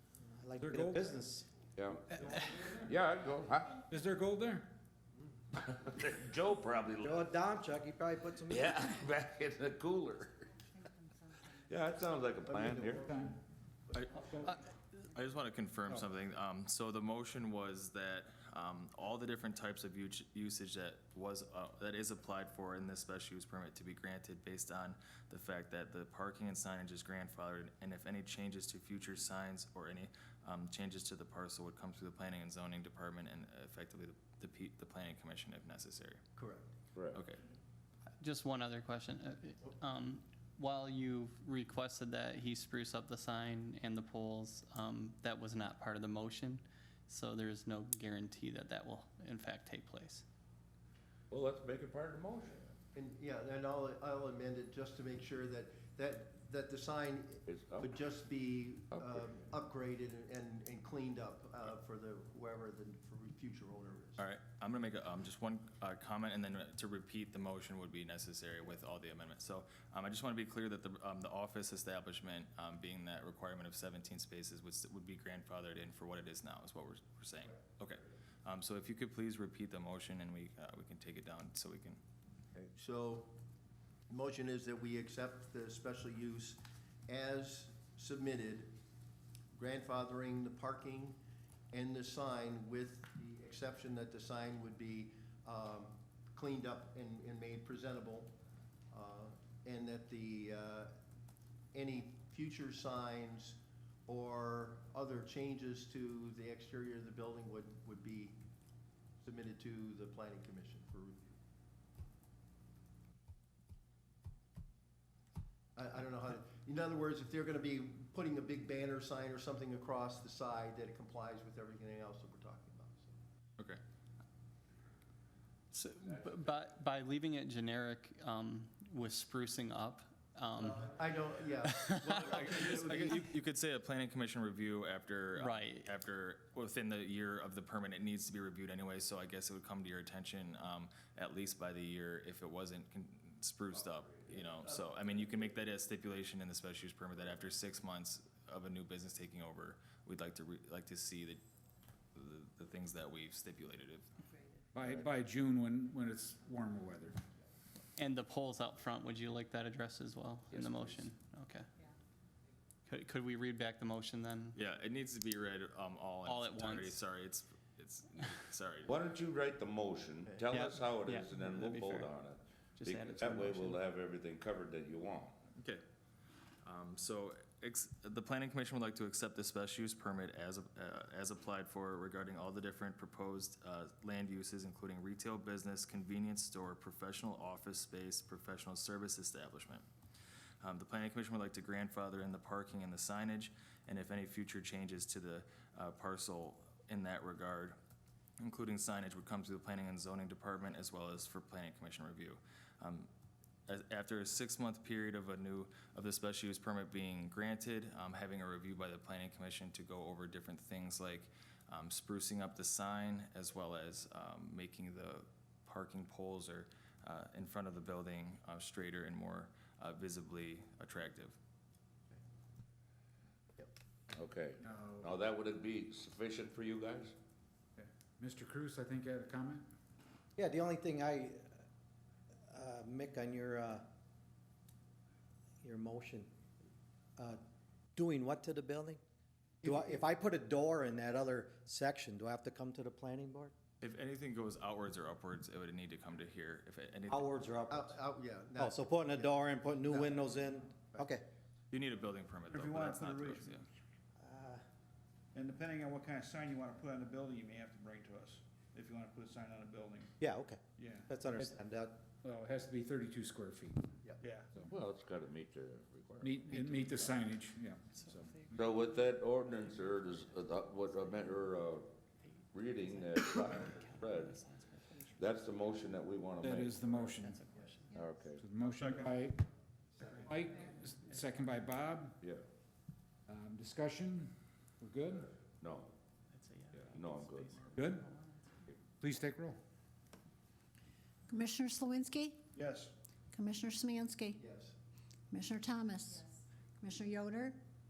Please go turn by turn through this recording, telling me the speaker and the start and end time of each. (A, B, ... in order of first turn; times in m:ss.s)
0:00.2-0:01.5 A
0:00.6-0:01.2 B
0:01.8-0:03.8 C
0:02.1-0:02.9 B
0:03.8-0:04.7 B
0:05.5-0:07.2 C
0:07.0-0:08.7 A
0:08.5-0:10.5 C
0:11.5-0:13.1 C
0:12.4-0:13.0 D
0:12.9-0:13.4 B
0:13.9-0:14.5 E
0:14.1-0:14.5 B
0:15.1-0:36.2 E
0:36.4-0:36.7 D
0:37.0-0:37.2 C
0:37.1-0:37.4 E
0:38.2-0:50.2 F
0:51.3-0:52.6 C
0:52.9-1:04.2 D
0:57.5-0:58.0 C
0:58.9-0:59.3 C
1:04.2-1:22.0 E
1:22.6-1:23.4 D
1:24.1-1:28.7 D
1:29.5-1:31.2 D
1:31.7-1:38.3 D
1:38.9-1:40.9 D
1:41.7-1:48.4 D
1:49.2-1:51.3 D
1:55.8-2:03.2 D
2:05.7-2:10.9 F
2:10.6-2:13.3 D
2:11.7-2:12.1 F
2:12.1-2:31.4 E
2:15.4-2:15.9 F
2:32.2-2:34.1 E
2:34.7-2:37.2 B
2:38.0-2:41.7 F
2:40.5-2:41.0 C
2:42.9-2:44.6 F
2:44.6-2:49.0 E
2:46.2-2:47.0 F
2:48.9-2:55.4 C
2:50.2-2:50.6 D
2:50.5-2:52.2 F
2:52.8-2:53.8 F
2:55.6-2:55.8 E
2:56.6-3:09.8 E
3:10.6-3:17.8 E
3:18.4-3:23.1 E
3:23.7-3:41.4 E
3:44.1-3:47.2 C
3:44.6-3:45.1 B
3:47.8-3:49.7 B
3:50.4-3:51.5 A
3:52.5-3:53.9 A
3:55.6-3:56.3 A
3:58.0-3:59.0 A
3:59.6-4:03.5 A
4:03.8-4:07.3 E
4:07.1-4:08.0 A
4:07.7-4:11.0 D
4:08.6-4:11.2 A
4:11.7-4:13.6 E
4:12.5-4:13.6 G
4:14.2-4:14.6 A
4:15.4-4:20.1 G
4:20.2-4:22.0 A
4:20.8-4:21.1 G
4:22.2-4:23.9 B
4:24.2-4:24.5 G
4:24.7-4:26.8 C
4:26.2-4:28.7 B
4:26.5-4:27.1 D
4:28.5-4:31.9 C
4:32.5-4:34.4 C
4:33.8-4:34.6 F
4:35.0-4:37.2 C
4:36.4-4:37.4 B
4:37.2-4:37.8 F
4:37.9-4:38.5 C
4:38.4-4:42.2 B
4:38.8-4:39.1 G
4:43.3-4:45.3 B
4:45.6-4:45.9 C
4:46.3-4:48.5 F
4:46.7-4:47.8 C
4:47.7-4:48.0 B
4:49.0-4:49.6 B
4:51.3-4:52.4 H
4:52.6-4:52.9 G
4:53.3-4:54.4 H
4:54.3-4:54.8 D
4:55.3-4:56.2 H
4:56.8-4:57.6 H